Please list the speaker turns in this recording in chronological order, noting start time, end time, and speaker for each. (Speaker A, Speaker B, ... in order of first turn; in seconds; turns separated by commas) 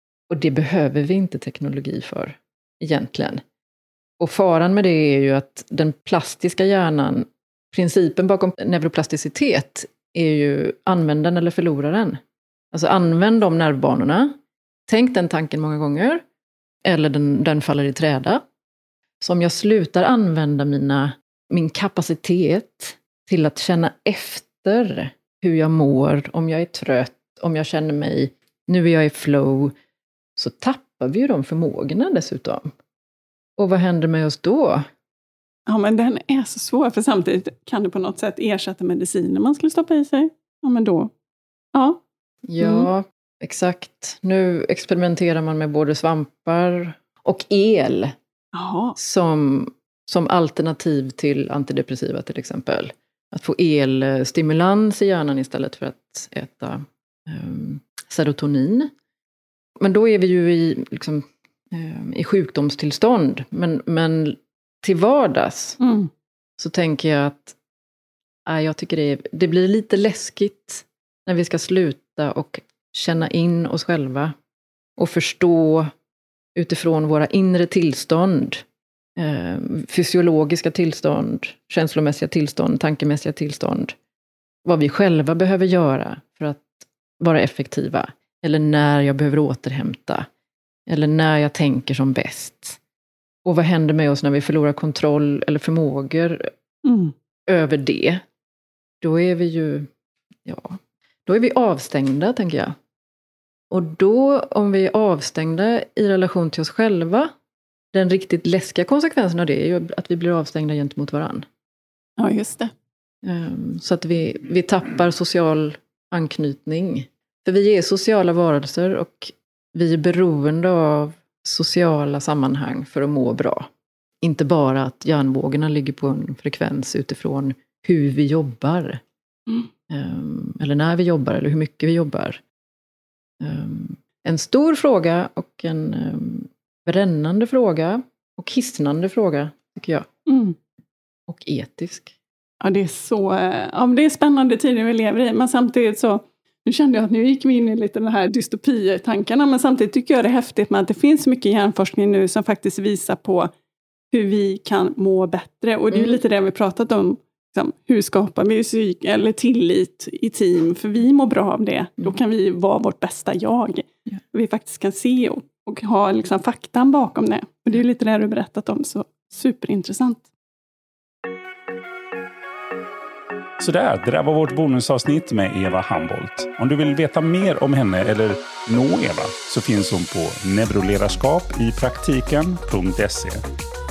Speaker A: 0.3-3.4, Speaker A: 4.2-12.2, Speaker A: 12.7-14.3, Speaker A: 14.9-16.2, Speaker A: 16.9-18.4, Speaker A: 19.2-29.7, Speaker A: 30.4-32.7, Speaker A: 33.6-34.8, Speaker B: 35.7-41.1, Speaker B: 41.7-42.0, Speaker A: 42.5-48.1, Speaker B: 42.6-42.9, Speaker B: 48.5-49.0, Speaker A: 49.0-58.9, Speaker A: 59.8-65.8, Speaker B: 65.8-66.1, Speaker A: 66.6-67.6, Speaker A: 68.5-74.3, Speaker A: 75.0-75.9, Speaker A: 76.6-78.6, Speaker A: 79.2-83.9, Speaker A: 84.7-90.3, Speaker A: 90.9-92.8, Speaker A: 93.5-96.5, Speaker B: 96.8-97.1, Speaker A: 97.5-98.2, Speaker A: 99.0-99.9, Speaker A: 100.5-102.8, Speaker A: 103.7-107.3, Speaker A: 107.9-111.5, Speaker B: 112.2-112.7, Speaker A: 113.2-123.7, Speaker A: 124.2-129.0, Speaker A: 129.9-132.4, Speaker A: 133.4-140.1, Speaker B: 140.3-140.6, Speaker A: 141.3-142.2, Speaker B: 142.6-153.5, Speaker B: 154.1-170.3, Speaker C: 173.6-183.4